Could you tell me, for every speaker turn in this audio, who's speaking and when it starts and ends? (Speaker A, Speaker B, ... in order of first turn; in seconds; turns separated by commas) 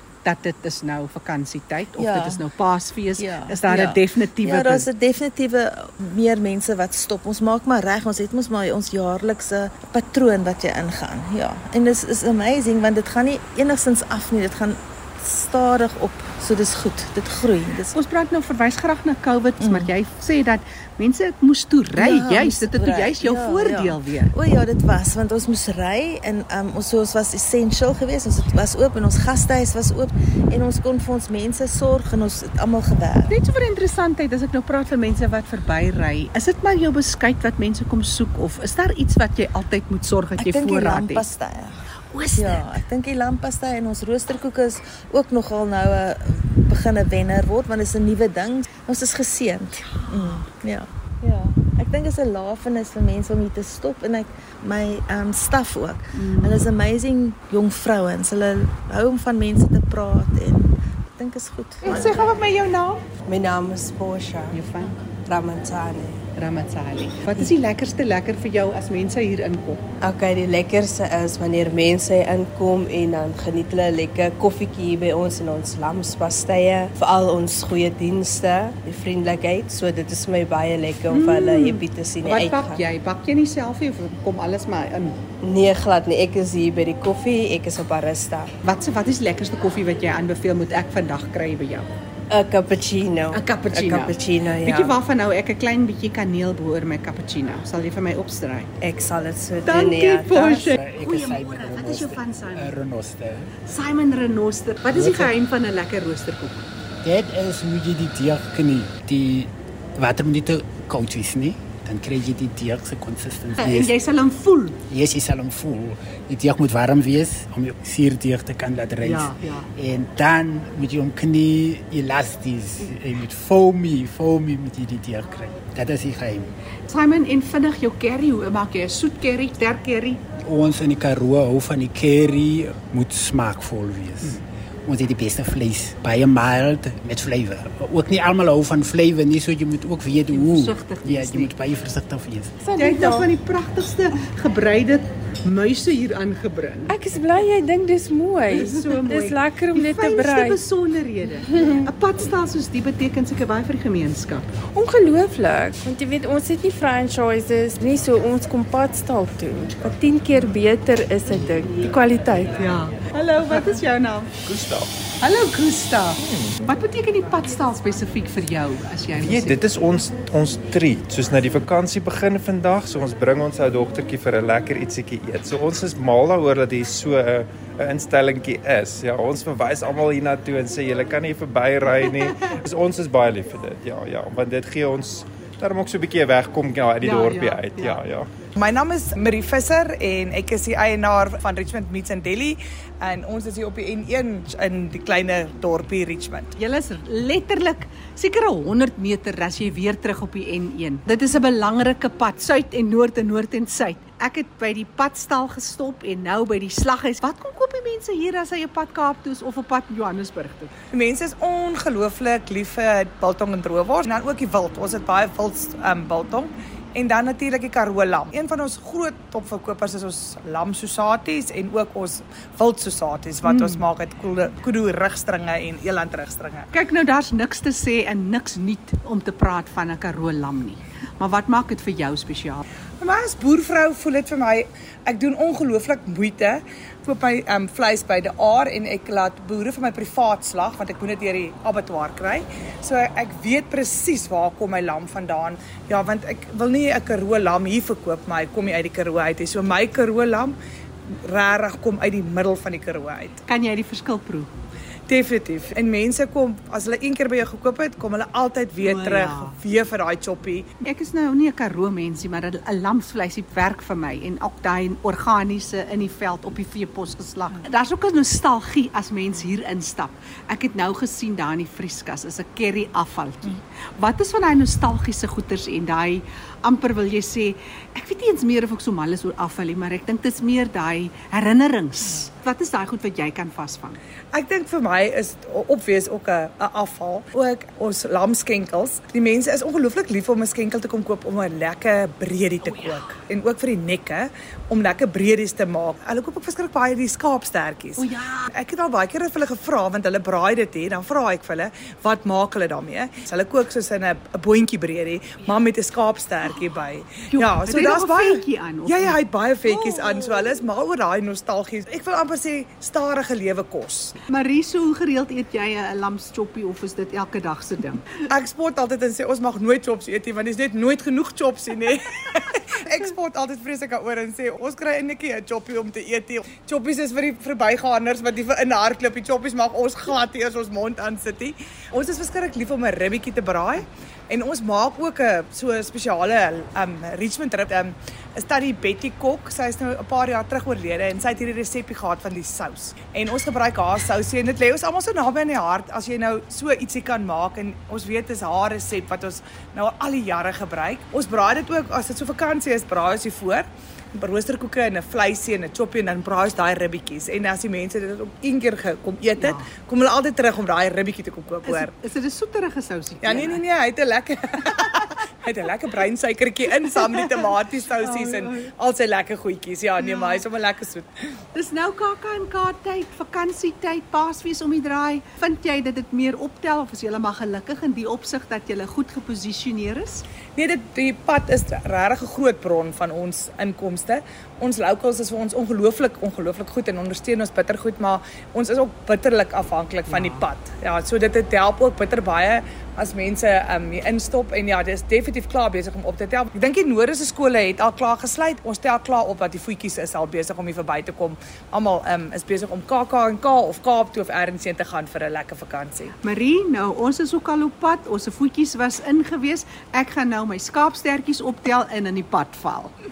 Speaker A: 0.2-4.8, Speaker B: 2.0-2.4, Speaker B: 3.1-17.9, Speaker A: 17.9-24.3, Speaker B: 19.6-19.9, Speaker B: 22.0-33.3, Speaker A: 33.3-41.2, Speaker B: 40.4-41.8, Speaker A: 42.1-42.7, Speaker B: 42.3-62.2, Speaker A: 49.9-50.5, Speaker A: 56.2-56.7, Speaker A: 61.8-63.0, Speaker C: 63.3-64.6, Speaker A: 64.5-64.9, Speaker C: 65.2-66.2, Speaker A: 66.3-69.8, Speaker C: 70.0-82.8, Speaker A: 81.1-85.2, Speaker C: 85.4-88.5, Speaker A: 88.6-91.9, Speaker C: 92.3-95.0, Speaker A: 93.3-98.7, Speaker C: 98.8-100.7, Speaker A: 99.6-102.8, Speaker D: 100.7-103.5, Speaker A: 103.7-106.7, Speaker D: 104.9-105.3, Speaker D: 107.0-113.9, Speaker A: 113.5-114.8, Speaker D: 114.9-126.5, Speaker A: 119.0-119.7, Speaker A: 126.9-130.2, Speaker D: 130.4-142.5, Speaker A: 140.3-141.5, Speaker E: 142.6-143.3, Speaker A: 142.8-147.0, Speaker E: 146.9-150.6, Speaker A: 148.5-154.5, Speaker E: 151.4-151.9, Speaker E: 154.7-162.6, Speaker A: 162.6-164.3, Speaker F: 164.4-164.9, Speaker A: 165.2-169.6, Speaker F: 166.2-166.6, Speaker F: 169.1-188.3, Speaker A: 187.0-188.0, Speaker G: 188.6-196.5, Speaker A: 196.6-210.7, Speaker G: 210.9-226.7, Speaker A: 223.4-223.8, Speaker A: 226.7-232.6, Speaker G: 233.0-250.6, Speaker G: 251.2-253.4, Speaker A: 253.4-254.5, Speaker G: 255.1-260.7, Speaker A: 258.8-259.6, Speaker A: 260.8-284.0, Speaker G: 284.3-314.2, Speaker A: 292.6-293.2, Speaker A: 298.0-298.5, Speaker A: 307.3-310.6, Speaker A: 314.3-318.1, Speaker G: 318.2-361.9, Speaker A: 359.4-359.7, Speaker A: 361.6-363.6, Speaker G: 363.2-371.1, Speaker A: 368.0-368.6, Speaker A: 370.0-370.4, Speaker A: 371.5-380.2, Speaker G: 380.6-406.1, Speaker A: 390.1-390.4, Speaker A: 406.2-412.9